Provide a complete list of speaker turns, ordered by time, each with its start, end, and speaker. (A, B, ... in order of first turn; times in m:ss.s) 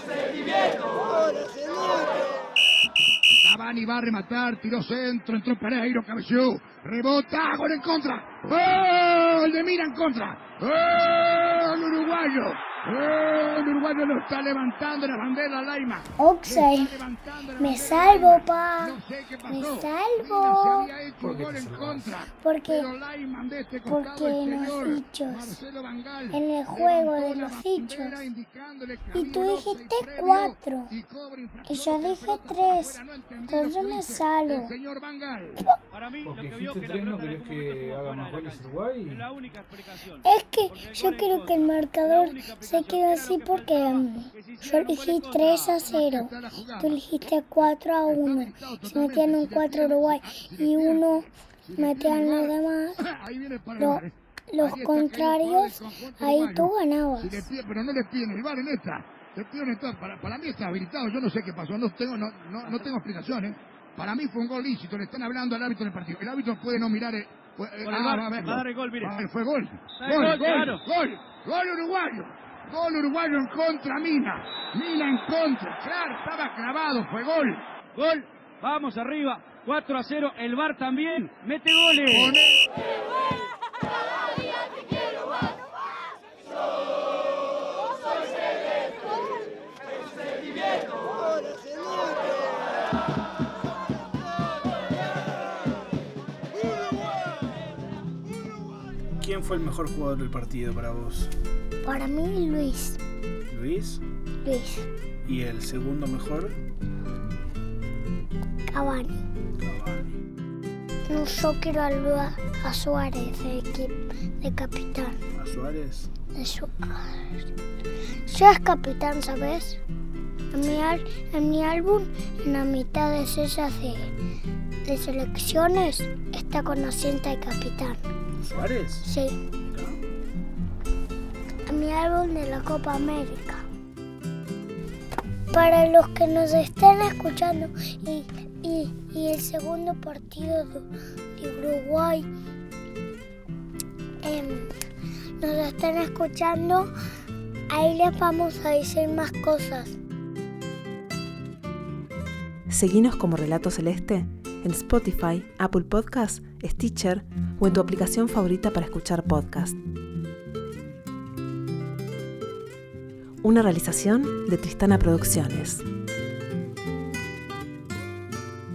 0:03.4-0:35.6 A
0:16.2-0:17.0 B
0:17.6-0:20.9 B
0:21.2-0:22.2 C
0:22.3-0:22.9 B
0:23.9-0:25.6 B
0:26.3-0:28.3 B
0:29.1-0:30.9 B
0:31.7-0:34.7 B
0:35.9-0:45.8 D
0:36.2-0:39.2 C
0:40.2-0:53.0 B
0:45.7-0:47.1 A
0:48.0-1:17.8 A
0:53.8-0:57.5 B
1:07.8-1:09.2 D
1:10.0-1:10.8 D
1:18.0-1:22.4 D
1:22.1-1:22.6 A
1:39.2-1:41.3 C
1:41.8-1:43.0 B
1:43.5-1:44.0 C
1:44.4-1:44.9 B
1:45.2-1:46.6 C
1:48.7-1:49.2 B
1:49.6-1:50.2 C
1:51.1-1:55.2 B
1:55.4-1:56.1 C
1:56.4-1:57.3 B
1:58.3-1:59.8 B
2:00.5-2:04.1 B
2:04.8-2:08.0 B
2:08.4-2:09.1 C
2:09.0-2:09.4 B
2:09.7-2:10.0 C
2:11.7-2:13.6 B
2:15.5-2:22.3 B
2:24.2-2:24.7 B
2:25.4-2:26.9 B
2:27.7-2:30.0 B
2:32.7-2:39.8 E
2:43.4-2:45.8 E